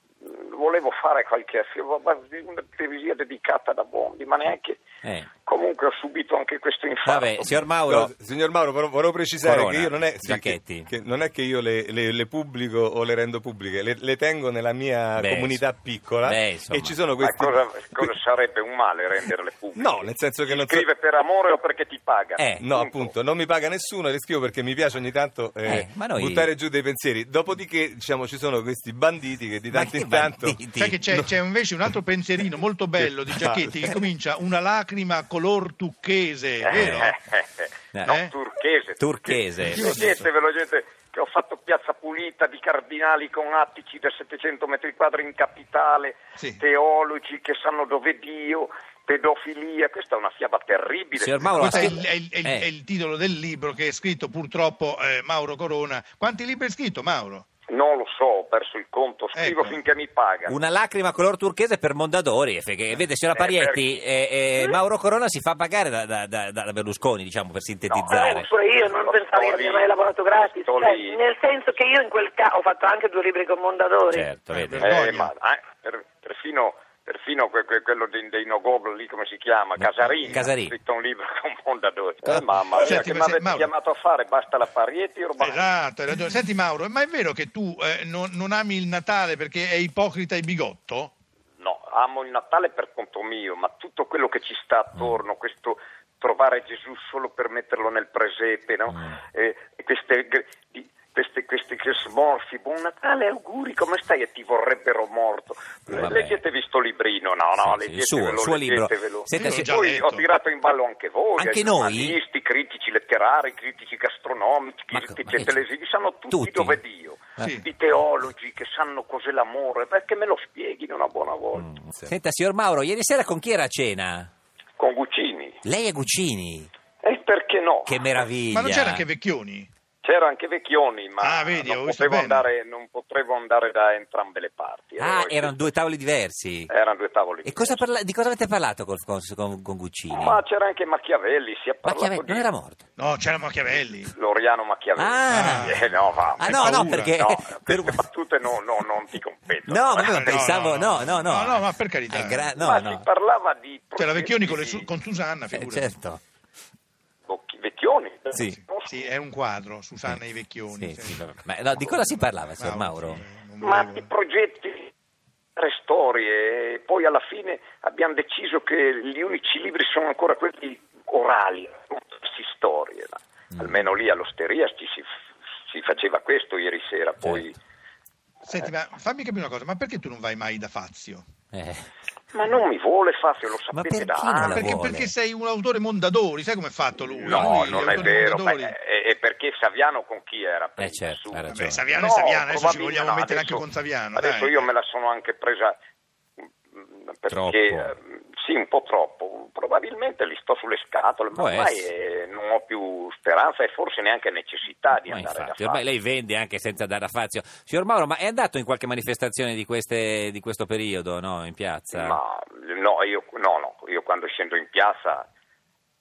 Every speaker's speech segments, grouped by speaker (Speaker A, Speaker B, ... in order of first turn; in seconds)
Speaker A: 0.2-4.8, 5.4-7.5, 17.2-23.1, 36.6-52.1, 57.7-60.6, 63.3-63.8, 67.9-71.2, 74.8-85.7, 91.6-121.7, 124.8-125.6, 127.0-128.1, 130.0-135.6, 136.7-137.8, 140.1-142.5, 143.7-151.1, 152.5-154.9, 157.3-159.1, 163.6-164.9, 165.6-175.1, 175.7-177.6, 182.3-185.0, 187.0-195.8, 196.7-205.8, 211.9-215.3
Speaker B: 5.0-5.3, 7.0-8.1, 9.4-10.9, 15.2-15.7, 16.2-17.0, 22.4-22.6, 25.6-26.5, 29.7-31.2, 33.3-33.6, 36.8-37.1, 39.0-40.2, 51.2-52.7, 60.5-68.5, 74.1-74.9, 79.8-80.7, 98.9-99.2, 105.9-106.4, 107.6-109.6, 111.4-112.2, 114.9-115.6, 116.3-116.8, 121.5-124.3, 125.6-126.7, 127.9-129.0, 135.0-136.7, 137.4-140.4, 141.8-142.8, 145.0-145.8, 146.4-148.0, 149.7-153.1, 155.5-156.2, 160.7-163.2, 173.5-173.8, 177.2-177.5, 181.5-181.9, 183.7-185.1, 187.3-188.2, 190.8-191.8, 197.3-197.9, 201.3-201.9, 205.1-212.2
Speaker C: 7.9-18.1, 19.8-20.9, 22.6-30.6
Speaker D: 30.8-37.1, 38.1-38.3, 39.7-40.1, 46.4-46.6, 51.6-57.5, 59.3-59.8, 74.5-75.3, 82.8-83.7, 85.4-91.1, 109.4-110.3, 128.5-129.7, 131.2-132.5, 143.0-144.1, 145.3-145.8, 146.5-147.1, 150.2-152.4, 154.0-155.9, 158.9-161.2, 161.9-164.1, 178.4-181.2, 184.5-188.7, 191.5-194.7
Speaker E: 68.1-74.3